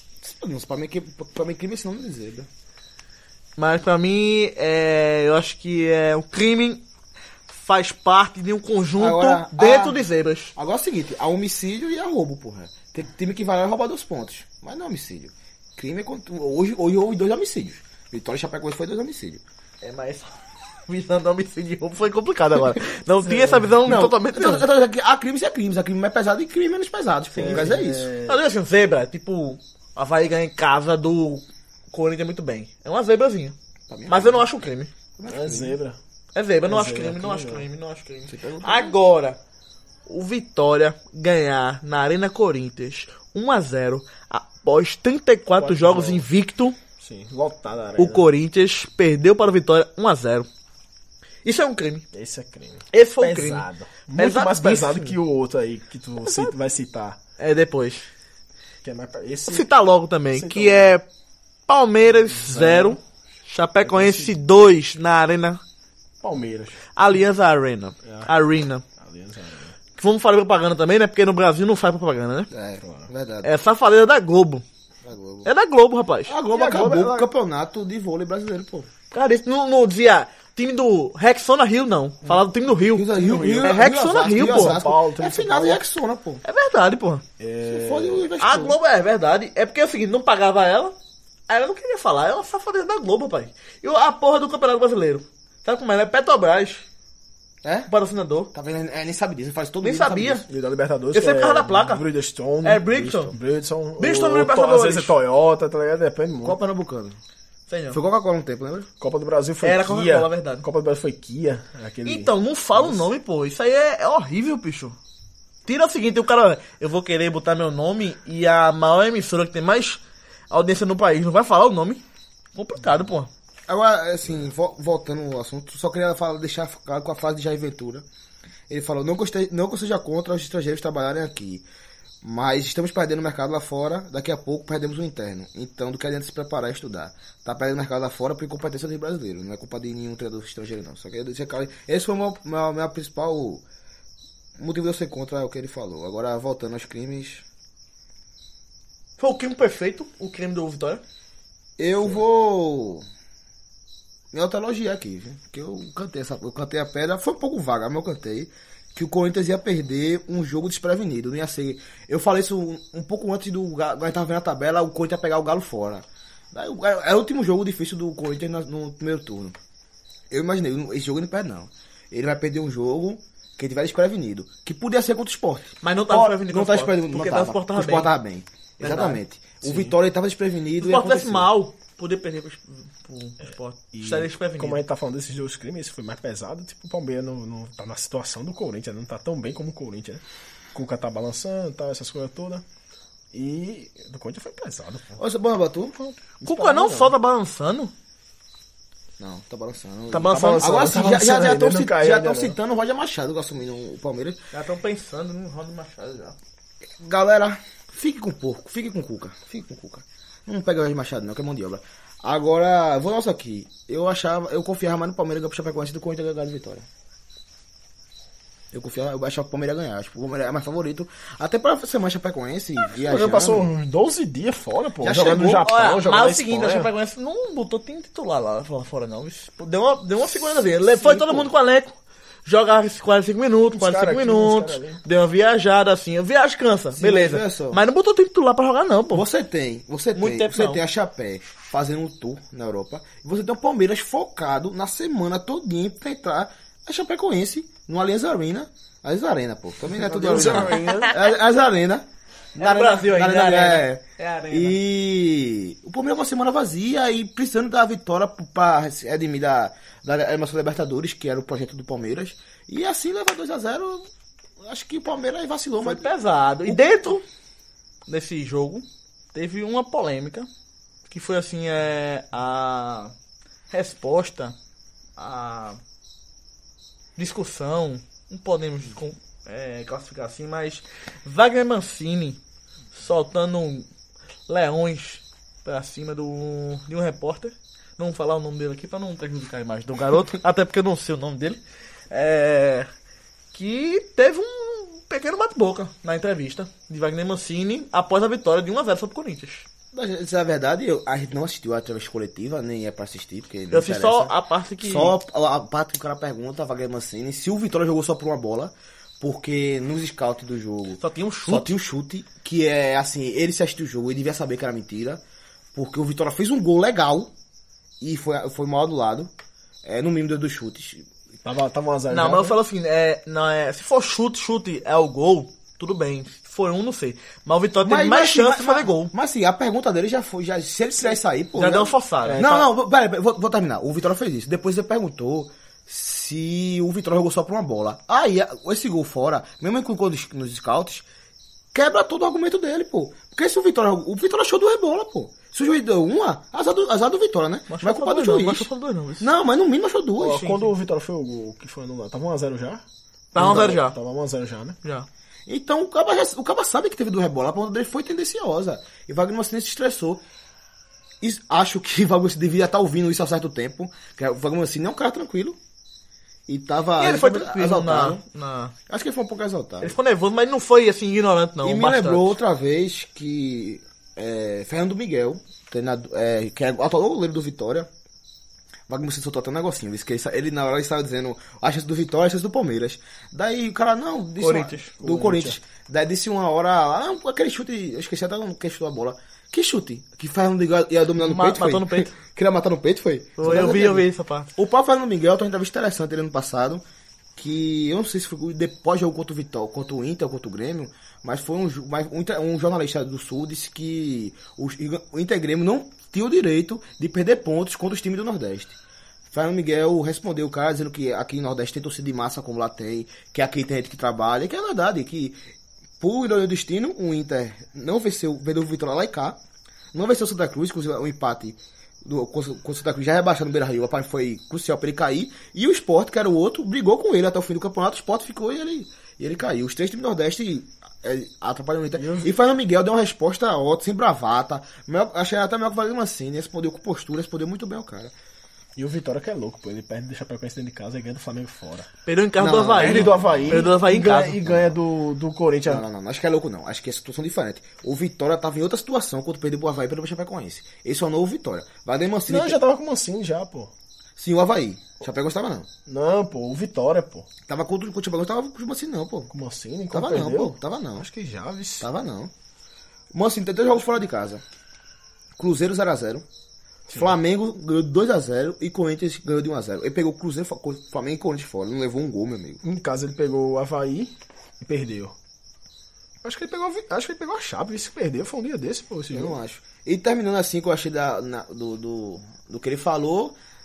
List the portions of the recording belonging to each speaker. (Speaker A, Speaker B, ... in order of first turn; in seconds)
Speaker A: 0.2-2.5, 9.0-10.0, 10.6-19.4, 23.8-28.1, 33.9-34.5, 35.2-35.8, 38.3-39.0, 72.5-73.5, 75.0-75.5, 76.3-78.9, 82.9-86.4, 87.7-88.8, 97.6-97.9, 98.5-100.5, 106.4-107.2, 107.9-108.9, 123.7-128.0, 128.7-131.6, 132.2-143.6, 144.6-147.4, 151.8-153.0, 154.3-169.6, 170.3-181.5, 195.2-196.0, 199.2-204.4, 207.0-216.8, 218.7-223.7, 225.0-225.7, 231.0-231.5, 236.9-237.8, 239.1-264.1, 264.6-266.1, 299.9-315.2, 315.7-317.3, 318.0-319.3, 319.8-321.1, 327.8-341.0, 341.7-350.5, 353.4-353.7, 355.5-360.2, 361.2-365.6, 366.5-368.2, 368.9-369.9, 371.6-377.9, 378.9-396.8, 397.4-408.8, 409.3-415.4, 416.0-419.4, 419.9-438.1, 442.4-443.7, 444.4-444.7, 445.6-452.6, 454.2-455.7, 457.5-459.3, 459.9-461.1, 461.8-462.3, 463.1-464.4, 465.4-466.2, 466.9-472.6, 479.1-483.4
Speaker B: 3.6-6.8, 7.5-10.5, 19.8-20.3, 20.9-24.7, 27.4-27.6, 28.2-33.5, 34.1-34.9, 36.3-39.4, 40.1-46.8, 48.0-50.5, 51.4-52.0, 52.9-55.2, 56.2-56.5, 57.4-58.0, 59.5-61.0, 61.7-65.6, 67.0-68.8, 70.0-72.5, 73.4-74.6, 75.4-76.4, 79.1-84.8, 86.4-87.2, 88.4-91.0, 91.5-96.8, 97.9-98.5, 99.8-100.4, 101.1-102.0, 102.6-103.3, 104.0-105.1, 107.7-108.0, 109.6-110.6, 112.0-115.0, 115.6-122.0, 122.5-123.3, 149.2-151.0, 175.8-178.1, 178.8-179.2, 180.8-184.8, 196.4-197.9, 200.1-200.9, 204.5-206.4, 225.2-239.2, 240.1-240.8, 250.2-251.1, 252.6-254.8, 265.8-267.2, 268.1-270.5, 271.1-273.1, 273.7-274.6, 275.2-275.8, 277.2-282.4, 282.9-283.9, 284.5-292.9, 293.5-299.7, 303.7-305.1, 311.0-311.7, 322.1-329.1, 331.5-332.6, 347.7-349.3, 350.2-350.7, 353.3-353.9, 367.0-368.7, 369.8-372.4, 384.4-384.9, 391.2-392.1, 393.4-394.5, 442.1-444.4
Speaker C: 23.3-23.7, 27.3-28.4, 35.3-36.0, 36.6-37.6, 45.6-46.3, 47.0-48.3, 52.1-57.2, 58.8-59.7, 60.3-60.9, 62.3-63.0, 63.8-64.4, 66.2-66.8, 68.0-68.3, 69.0-69.7, 72.8-73.1, 76.5-77.3, 83.2-85.8, 87.4-88.3, 100.5-106.6, 109.0-113.0, 179.6-179.9, 183.9-190.2, 190.7-192.6, 193.3-195.2, 196.4-197.1, 200.2-202.6, 222.8-226.9, 233.7-235.0, 249.9-251.1, 321.4-322.6, 332.2-332.6, 350.2-352.8, 353.3-354.8, 385.0-385.6, 432.0-432.3, 438.8-441.9, 442.7-445.8, 452.3-453.7, 455.9-457.3, 459.3-461.9, 472.6-475.1, 476.2-479.4